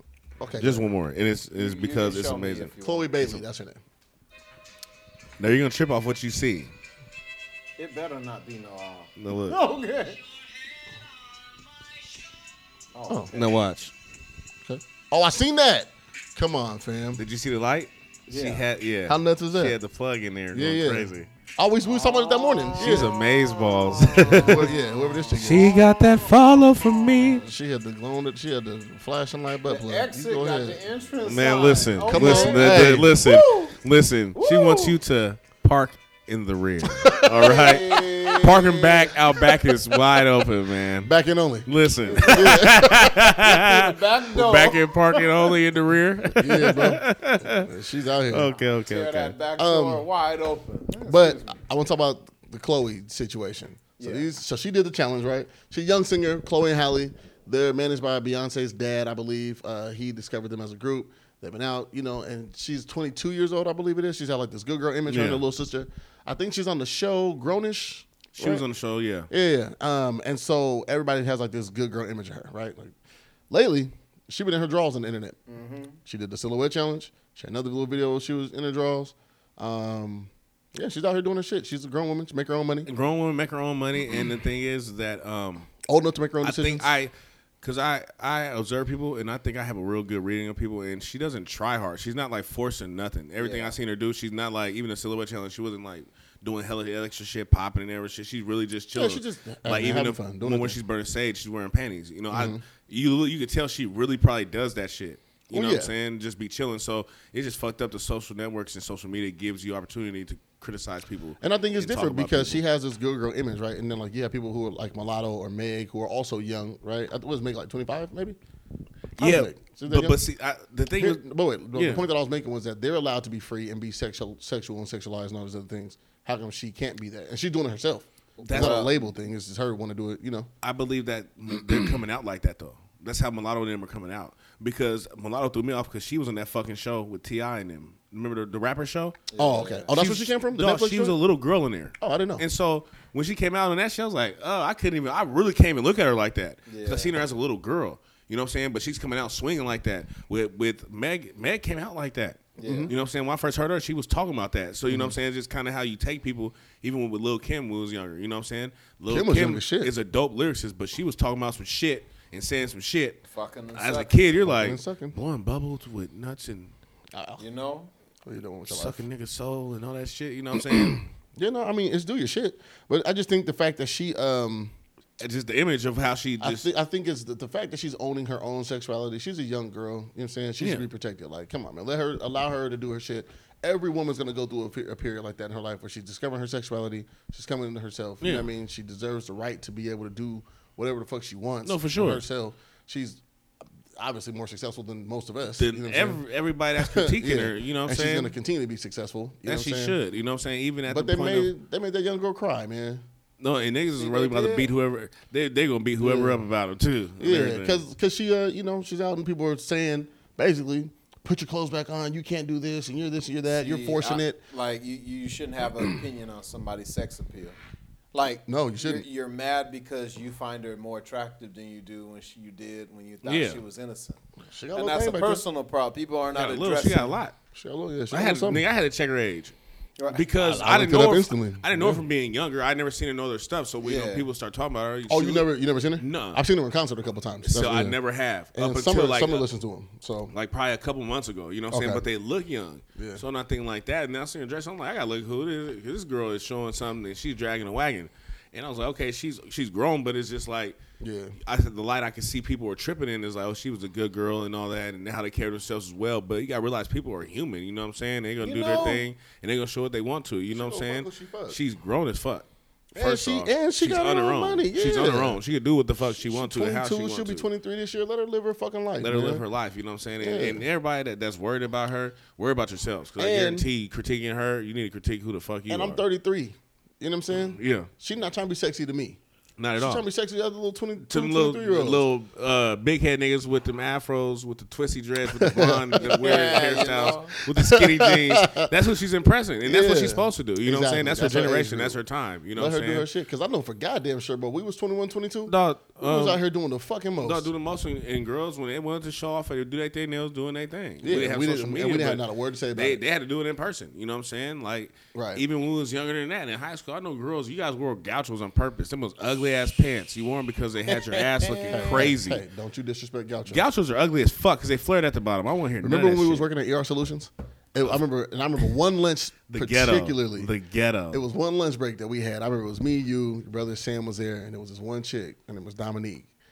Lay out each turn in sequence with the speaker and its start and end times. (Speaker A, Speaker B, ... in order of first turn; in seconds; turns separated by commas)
Speaker A: 0.4-0.9, Speaker B: 0.6-2.7, Speaker C: 1.6-3.3, Speaker A: 2.8-3.8, Speaker B: 5.4-6.7, Speaker C: 7.8-10.2, Speaker B: 9.2-9.6, Speaker C: 12.9-13.5, Speaker B: 13.3-13.9, Speaker A: 14.6-17.2, Speaker B: 17.2-21.3, Speaker C: 18.3-18.7, Speaker A: 19.1-19.8, Speaker A: 20.5-23.1, Speaker C: 21.9-26.4, Speaker B: 22.8-24.7, Speaker A: 24.3-25.8, Speaker B: 25.4-27.4, Speaker C: 26.9-27.4, Speaker A: 27.4-30.8, Speaker C: 29.6-33.8, Speaker B: 31.2-41.1, Speaker A: 32.1-33.2, Speaker C: 34.4-35.0, Speaker C: 37.1-39.2, Speaker A: 41.0-43.3, Speaker B: 41.7-47.7, Speaker C: 42.1-42.7, Speaker C: 43.4-45.3, Speaker A: 46.3-48.5, Speaker B: 48.3-49.4, Speaker C: 48.5-51.6, Speaker A: 49.6-50.1, Speaker A: 51.0-68.6, Speaker C: 54.0-54.3, Speaker B: 65.1-65.4, Speaker B: 68.3-69.3, Speaker A: 69.3-73.0, Speaker A: 73.5-75.4, Speaker C: 75.5-76.0, Speaker A: 76.0-82.9, Speaker B: 82.9-85.7, Speaker A: 85.8-86.9, Speaker B: 86.4-112.6, Speaker C: 93.4-93.8, Speaker A: 98.9-100.8, Speaker A: 102.3-102.6, Speaker A: 105.5-105.9, Speaker A: 111.4-118.4, Speaker A: 119.2-120.2, Speaker B: 119.2-122.1, Speaker A: 121.0-130.5, Speaker B: 128.4-128.9, Speaker C: 128.5-129.0, Speaker B: 130.6-139.2, Speaker C: 139.3-139.9, Speaker A: 139.4-141.2, Speaker B: 139.9-166.7, Speaker A: 142.0-142.4, Speaker C: 146.7-147.2, Speaker C: 152.6-152.9, Speaker A: 152.6-152.9, Speaker A: 154.9-155.2, Speaker A: 159.1-159.9, Speaker C: 163.3-164.2, Speaker A: 164.4-165.2, Speaker A: 167.1-167.4, Speaker C: 167.4-167.9, Speaker A: 168.3-169.0, Speaker B: 168.7-171.0, Speaker A: 170.5-174.7, Speaker B: 175.2-176.7, Speaker A: 176.4-193.2, Speaker B: 180.6-180.8, Speaker B: 188.2-188.5, Speaker B: 191.6-192.2, Speaker A: 194.0-196.2, Speaker B: 195.6-198.3, Speaker A: 196.8-200.0, Speaker B: 199.4-201.5, Speaker A: 200.9-203.0, Speaker B: 203.4-207.8, Speaker C: 204.0-204.7, Speaker A: 206.0-206.4, Speaker A: 207.2-214.4, Speaker C: 213.6-217.6, Speaker C: 218.1-224.2, Speaker A: 218.5-219.1, Speaker B: 223.2-223.6, Speaker A: 224.5-225.4, Speaker C: 224.8-227.2, Speaker B: 226.3-227.3, Speaker A: 227.5-228.6, Speaker B: 228.1-229.6, Speaker C: 230.0-230.3, Speaker B: 230.1-236.4, Speaker A: 230.4-232.0, Speaker C: 233.8-234.3, Speaker A: 235.1-238.0, Speaker B: 237.4-239.5, Speaker A: 238.5-240.3, Speaker B: 240.3-250.8, Speaker A: 241.7-242.1, Speaker A: 243.0-243.2, Speaker A: 251.0-251.4, Speaker B: 251.4-267.5, Speaker C: 258.4-259.1, Speaker A: 260.5-261.6, Speaker A: 262.9-265.4, Speaker A: 266.0-269.4, Speaker B: 269.0-276.0, Speaker A: 270.2-270.6, Speaker A: 273.2-273.7, Speaker A: 275.7-279.2, Speaker B: 277.3-277.9, Speaker B: 279.6-280.1, Speaker A: 279.8-282.1, Speaker B: 281.1-293.1, Speaker A: 285.3-288.7, Speaker C: 286.0-287.4, Speaker A: 289.6-292.0, Speaker A: 292.6-297.5, Speaker B: 295.5-296.4, Speaker B: 297.2-302.2, Speaker A: 301.0-303.0, Speaker B: 302.7-312.4, Speaker A: 305.1-305.4, Speaker C: 310.9-312.1, Speaker A: 311.7-313.7, Speaker B: 313.5-316.5, Speaker A: 315.8-320.5, Speaker B: 319.5-321.2, Speaker A: 321.1-326.3